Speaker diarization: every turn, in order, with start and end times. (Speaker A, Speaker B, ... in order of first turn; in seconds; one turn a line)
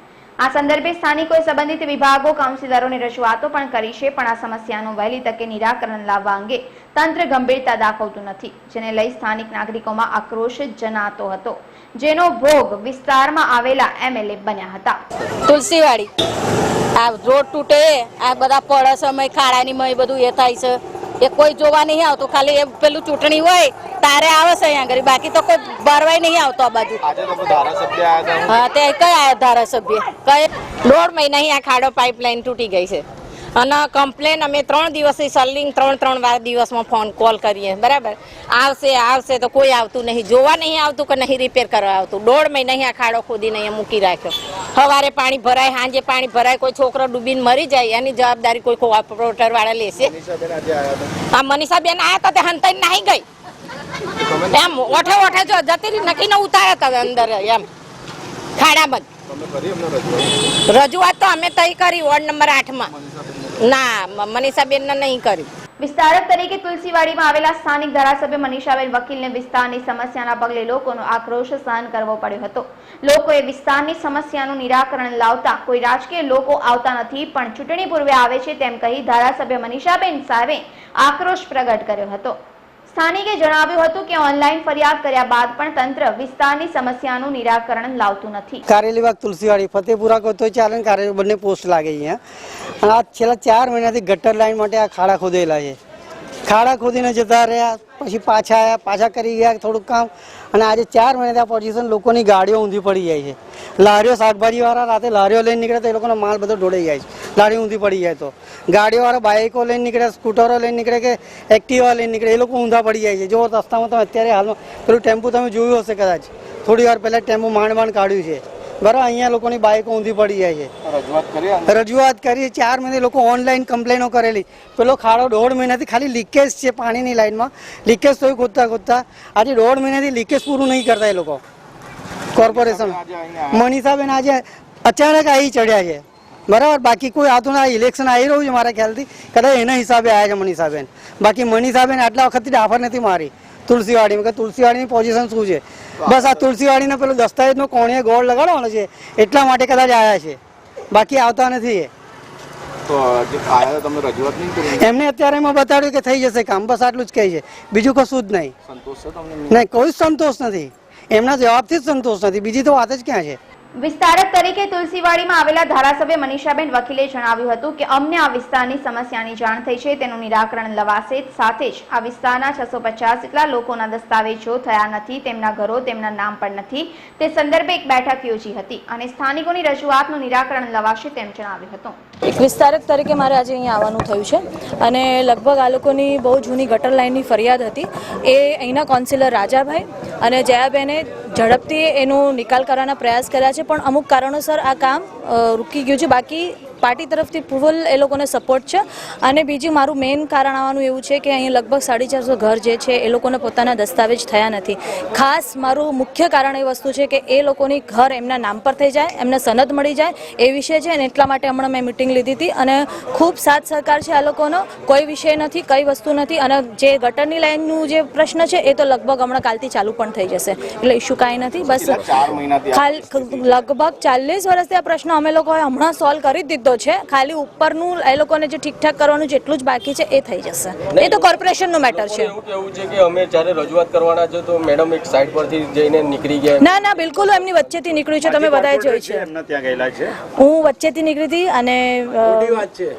Speaker A: 0.4-15.0
Speaker B: 15.4-16.1
Speaker B: 17.0-27.0
Speaker C: 27.2-28.6
Speaker B: 28.5-33.0
Speaker B: 33.5-50.1
Speaker C: 50.2-51.1
Speaker B: 51.2-53.2
Speaker B: 54.3-57.7
Speaker B: 58.6-59.1
Speaker C: 59.3-60.3
Speaker B: 60.7-62.9
Speaker B: 63.6-65.5
Speaker A: 65.8-82.4
Speaker A: 82.9-88.6
Speaker D: 88.7-92.2
Speaker D: 92.8-95.8
Speaker D: 96.5-120.7
Speaker C: 120.9-121.6
Speaker D: 121.7-131.4
Speaker C: 132.3-133.7
Speaker D: 132.3-133.0
Speaker D: 133.5-150.4
Speaker D: 150.9-151.9
Speaker C: 152.8-154.8
Speaker D: 154.7-158.5
Speaker C: 158.7-159.6
Speaker D: 159.5-163.4
Speaker A: 163.8-182.0
Speaker E: 182.3-222.2
Speaker C: 221.6-223.6
Speaker E: 222.7-232.3
Speaker F: 231.9-236.7
Speaker E: 236.6-239.3
Speaker E: 240.4-242.7